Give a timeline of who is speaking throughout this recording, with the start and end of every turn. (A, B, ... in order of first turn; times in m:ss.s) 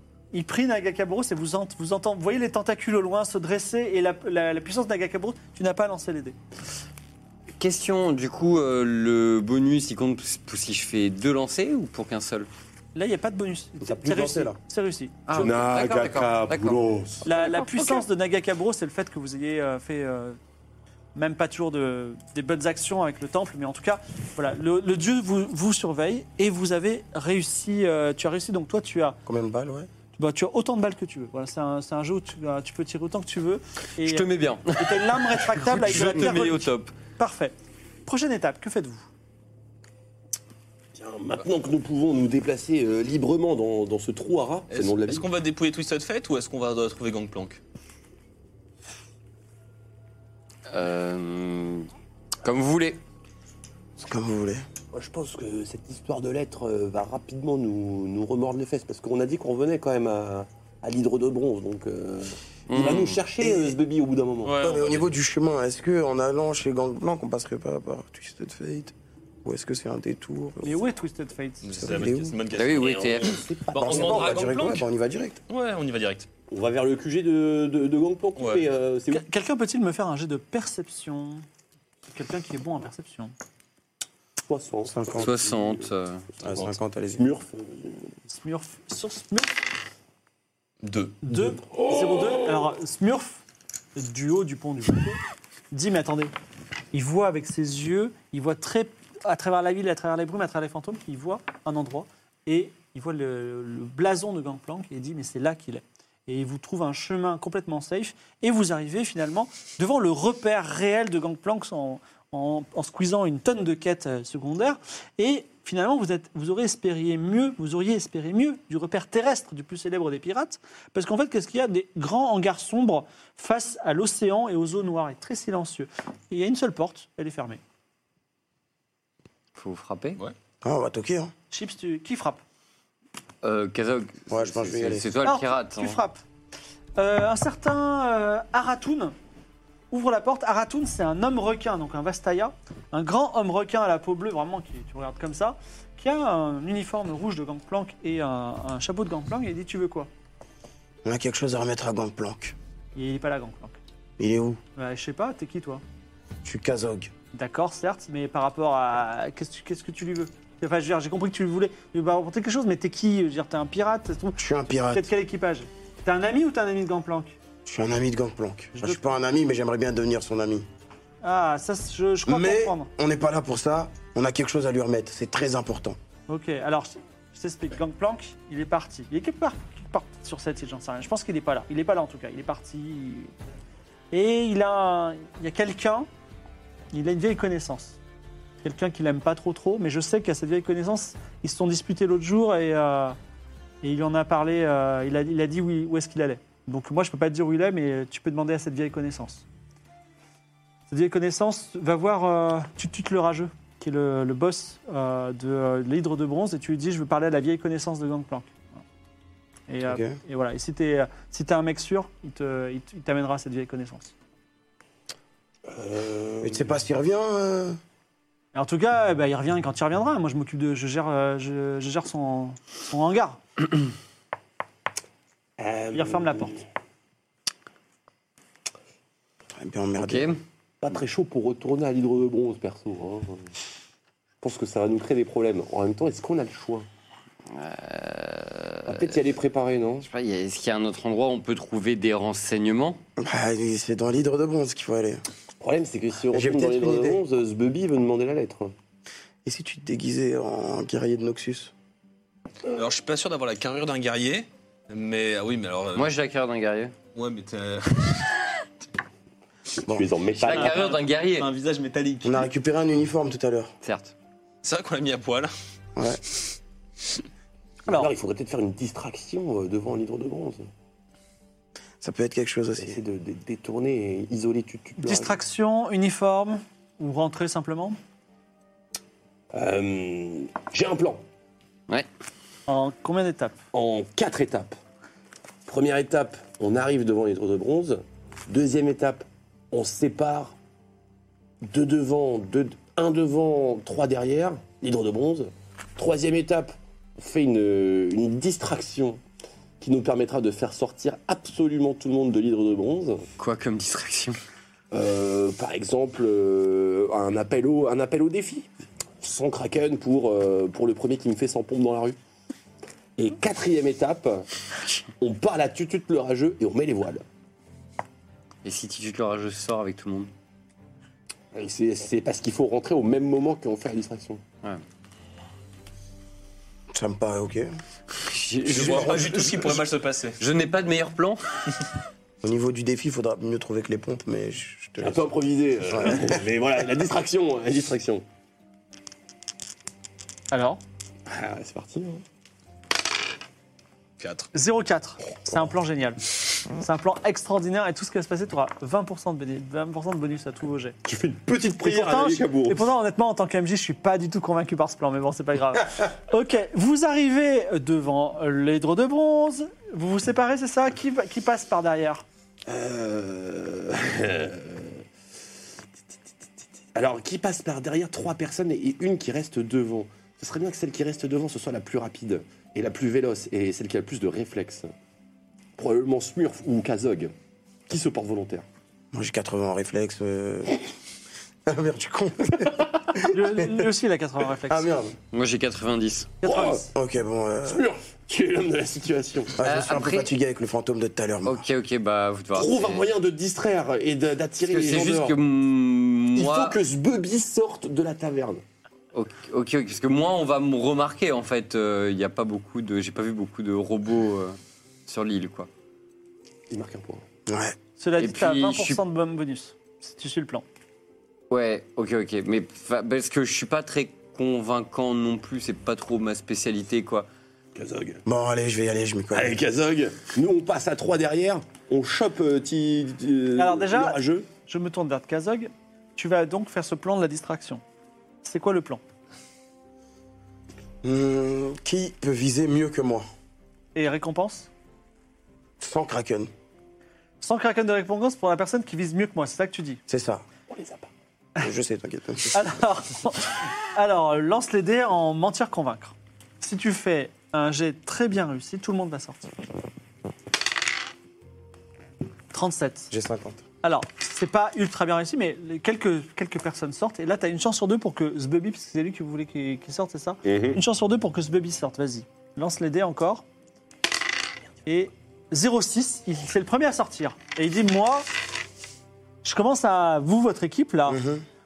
0:00.3-0:06.4 A
0:07.6-0:12.5 B
0:12.9-0:15.2 A
0:13.8-0:14.6 C
0:15.3-0:18.0 B
0:15.3-0:17.2 D
0:17.2-0:20.4 A
0:21.1-0:29.2 A
0:29.2-0:29.9 C
0:30.1-0:39.1 A
0:34.0-0:36.9 B
0:40.9-0:45.2 D
0:44.7-0:47.6 E
0:50.7-0:51.9 B
0:52.4-0:53.0 B
0:54.0-0:54.6 C
0:54.9-1:04.6 D
1:02.7-1:03.2 B
1:03.4-1:03.7 C
1:04.4-1:05.1 E
1:04.6-1:10.8 C
1:10.6-1:12.0 A
1:11.6-1:14.9 E
1:11.8-1:12.4 C
1:12.5-1:13.4 B
1:13.3-1:14.6 D
1:13.8-1:15.4 C
1:15.5-1:16.3 E
1:16.5-1:19.2 D
1:18.4-1:18.6 E
1:19.1-1:21.4 A
1:22.1-1:23.3 A
1:24.4-1:25.9 D
1:24.9-1:25.3 C
1:25.2-1:26.2 B
1:26.4-1:26.7 E
1:26.4-1:27.3 C
1:27.2-1:28.1 D
1:28.3-1:29.5 A
1:30.8-1:31.2 E
1:31.2-1:33.4 A
1:31.4-1:32.5 D
1:34.0-1:35.2 A
1:35.7-1:36.3 A
1:36.9-2:07.6 A
2:09.6-2:10.2 B
2:10.6-2:11.3 C
2:11.5-2:12.4 A
2:13.4-2:16.0 B
2:14.3-2:15.1 C
2:15.2-2:16.2 A
2:17.0-2:19.1 A
2:19.9-2:30.1 A
2:31.0-2:32.6 C
2:33.0-2:33.8 A
2:34.2-2:34.6 C
2:34.8-2:35.8 A
2:36.4-2:37.1 C
2:37.3-2:47.3 A
2:44.4-2:45.1 C
2:47.6-2:50.6 C
2:48.7-2:49.1 A
2:51.2-2:52.9 A
2:52.2-2:56.0 C
2:56.3-3:03.3 A
3:04.1-3:06.1 A
3:06.9-3:08.0 A
3:08.6-3:13.2 A
3:13.8-3:19.4 A
3:20.9-3:28.7 A
3:29.7-3:34.1 A
3:29.8-3:30.2 C
3:35.7-3:36.8 D
3:36.4-3:37.8 C
3:38.5-3:43.4 A
3:45.6-3:46.6 D
3:45.9-3:46.5 A
3:49.5-3:50.3 C
3:50.0-3:50.4 B
3:50.8-3:53.5 D
3:54.4-3:56.9 D
3:57.5-3:59.0 B
3:58.9-4:00.1 D
4:00.0-4:03.0 B
4:03.2-4:05.2 C
4:05.6-4:08.7 D
4:06.3-4:07.2 C
4:09.4-4:11.7 C
4:12.7-4:16.1 E
4:15.9-4:16.9 B
4:17.1-4:18.3 E
4:19.9-4:20.9 D
4:20.4-4:21.5 B
4:20.5-4:22.5 E
4:22.2-4:23.7 C
4:23.8-4:24.1 B
4:24.6-4:25.5 E
4:26.0-4:26.2 C
4:27.9-4:30.7 D
4:32.0-4:33.0 C
4:32.8-4:35.4 D
4:35.0-4:38.0 A
4:39.5-4:41.2 D
4:42.7-4:43.6 A
4:43.7-4:44.8 D
4:45.6-4:50.6 D
4:51.6-4:59.2 D
4:59.8-5:03.2 D
5:03.4-5:04.4 B
5:04.9-5:08.7 D
5:09.2-5:12.2 D
5:13.2-5:14.5 D
5:15.2-5:17.2 D
5:18.6-5:20.3 B
5:21.5-5:24.4 D
5:26.9-5:27.7 C
5:28.2-5:29.6 B
5:28.7-5:29.7 C
5:28.7-5:30.4 E
5:30.4-5:31.4 B
5:32.4-5:35.3 C
5:35.0-5:38.2 D
5:35.9-5:36.4 C
5:40.5-5:40.8 A
5:41.3-5:42.2 D
5:44.2-5:44.5 E
5:44.5-5:46.2 A
5:46.8-5:51.0 A
5:51.0-5:52.8 D
5:51.6-6:02.2 A
6:02.7-6:05.0 D
6:06.9-6:14.9 D
6:15.8-6:17.3 D
6:17.9-6:18.6 D
6:19.1-6:20.8 C
6:21.6-6:23.8 C
6:23.2-6:24.9 A
6:24.7-6:25.2 C
6:25.3-6:26.3 B
6:26.4-6:26.9 A
6:26.4-6:26.9 D
6:26.9-6:27.8 C
6:27.6-6:29.6 D
6:29.6-6:31.6 C
6:29.6-6:30.3 B
6:31.4-6:33.1 B
6:32.5-6:35.4 D
6:34.7-6:36.8 B
6:36.3-6:38.6 D
6:39.1-6:45.7 B
6:46.7-6:47.2 D
6:47.5-6:47.8 C
6:48.0-6:50.6 A
6:48.2-6:49.0 B
6:51.5-6:57.3 B
6:57.7-6:58.2 D
6:58.2-6:59.6 C
6:59.3-7:04.5 D
7:03.6-7:07.8 A
7:08.4-7:09.0 A
7:11.0-7:13.2 C
7:13.9-7:14.7 A
7:15.8-7:16.5 C
7:17.4-7:20.0 A
7:20.1-7:20.4 C
7:20.7-7:21.1 D
7:21.6-7:22.6 C
7:22.5-7:29.5 A
7:32.5-7:33.1 A
7:33.1-7:33.6 C
7:33.8-7:43.4 A
7:40.4-7:40.8 D
7:44.8-7:48.2 A
7:49.4-7:51.2 A
7:51.1-7:51.4 C